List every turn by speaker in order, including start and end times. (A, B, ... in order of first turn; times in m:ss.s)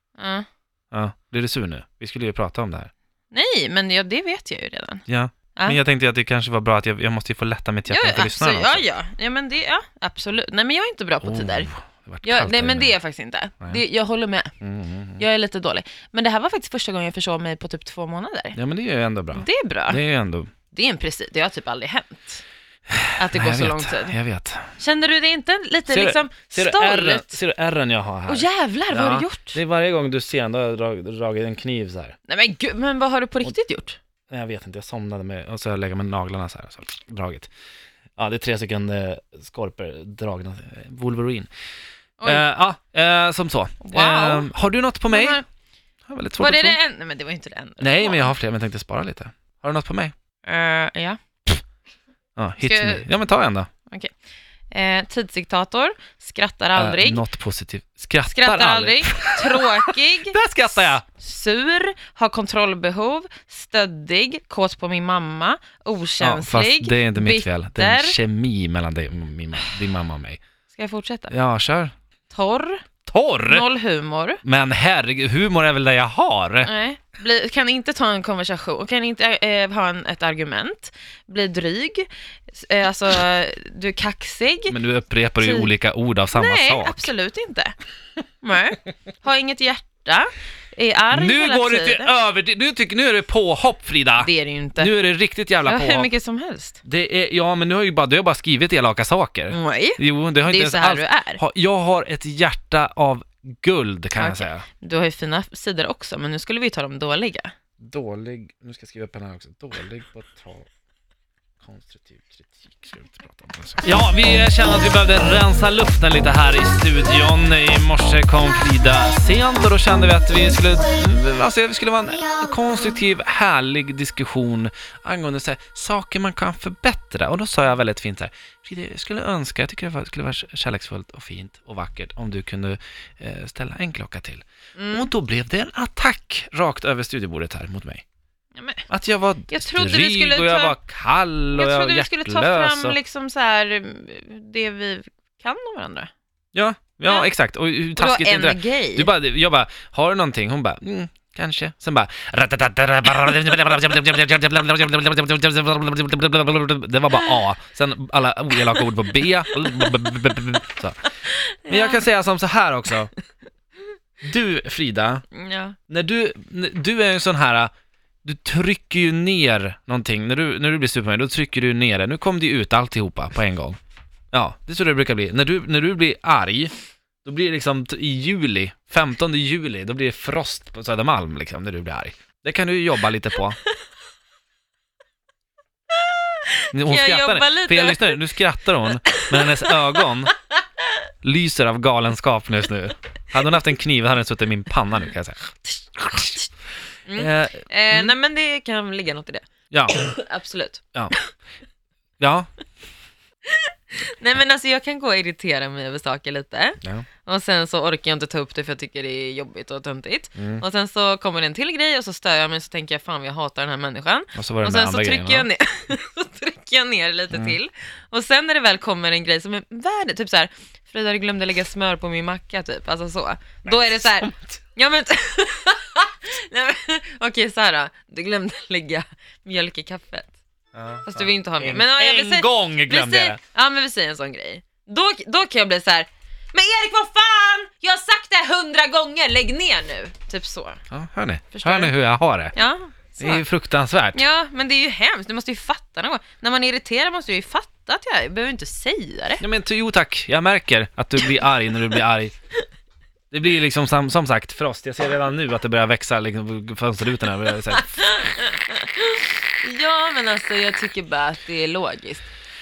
0:00.2-0:00.5 A
0:00.9-0:02.9 B
0:03.3-0:05.0 A
0:05.1-0:08.8 B
0:07.9-0:11.7 A
0:11.2-0:13.0 B
0:12.2-0:14.5 A
0:14.6-0:15.2 B
0:15.2-0:18.6 A
0:18.6-0:20.5 B
0:19.3-0:20.0 A
0:20.7-0:22.4 A
0:22.9-0:24.7 B
0:23.2-0:24.2 A
0:24.8-0:27.4 A
0:25.9-0:32.2 B
0:28.3-0:29.6 A
0:32.3-0:34.0 A
0:34.3-0:37.5 B
0:38.2-0:41.5 B
0:42.2-0:42.4 A
0:42.2-0:45.4 B
0:43.8-0:44.5 A
0:45.1-0:45.4 A
0:46.1-0:46.8 B
0:46.4-0:48.3 A
0:47.8-0:50.1 B
0:50.4-0:51.2 A
0:52.4-0:53.7 B
0:52.6-0:53.1 A
0:54.7-0:57.2 A
0:56.8-1:01.0 B
0:58.3-1:08.2 A
1:06.2-1:10.4 B
1:10.7-1:11.3 A
1:11.3-1:11.9 B
1:12.3-1:12.8 A
1:13.0-1:13.6 B
1:13.4-1:14.4 A
1:14.4-1:16.7 B
1:16.6-1:24.8 A
1:24.7-1:27.1 B
1:25.4-1:25.7 A
1:26.3-1:27.8 A
1:28.4-1:32.2 A
1:31.1-1:36.1 B
1:34.2-1:34.9 A
1:35.6-1:36.8 A
1:36.8-1:44.6 B
1:39.5-1:41.4 A
1:44.2-1:47.5 A
1:47.8-1:50.7 B
1:51.6-2:18.0 B
2:14.8-2:15.1 A
2:18.6-2:18.9 A
2:18.9-2:23.0 B
2:19.5-2:20.8 A
2:21.5-2:26.1 A
2:26.5-2:41.0 B
2:27.1-2:27.3 A
2:28.0-2:29.1 A
2:39.6-2:40.1 A
2:41.2-2:42.0 A
2:41.7-2:43.1 B
2:44.2-2:45.2 B
2:45.3-2:45.8 A
2:45.9-2:47.7 B
2:48.2-2:53.8 B
2:54.3-3:03.6 B
3:05.9-3:08.3 A
3:06.7-3:10.3 B
3:09.1-3:10.1 A
3:11.2-3:16.4 B
3:16.1-3:16.5 A
3:17.1-3:20.8 A
3:17.2-3:18.1 B
3:19.7-3:20.0 B
3:22.2-3:22.5 B
3:23.4-3:50.4 A
3:30.4-3:30.6 B
3:34.4-3:35.5 B
3:43.7-3:44.6 B
3:50.7-3:53.4 B
3:51.0-4:00.8 A
4:00.9-4:02.6 B
4:01.5-4:01.9 A
4:02.5-4:03.4 A
4:03.2-4:04.2 B
4:04.1-4:09.4 A
4:09.4-4:12.4 B
4:13.3-4:17.9 B
4:17.7-4:22.3 A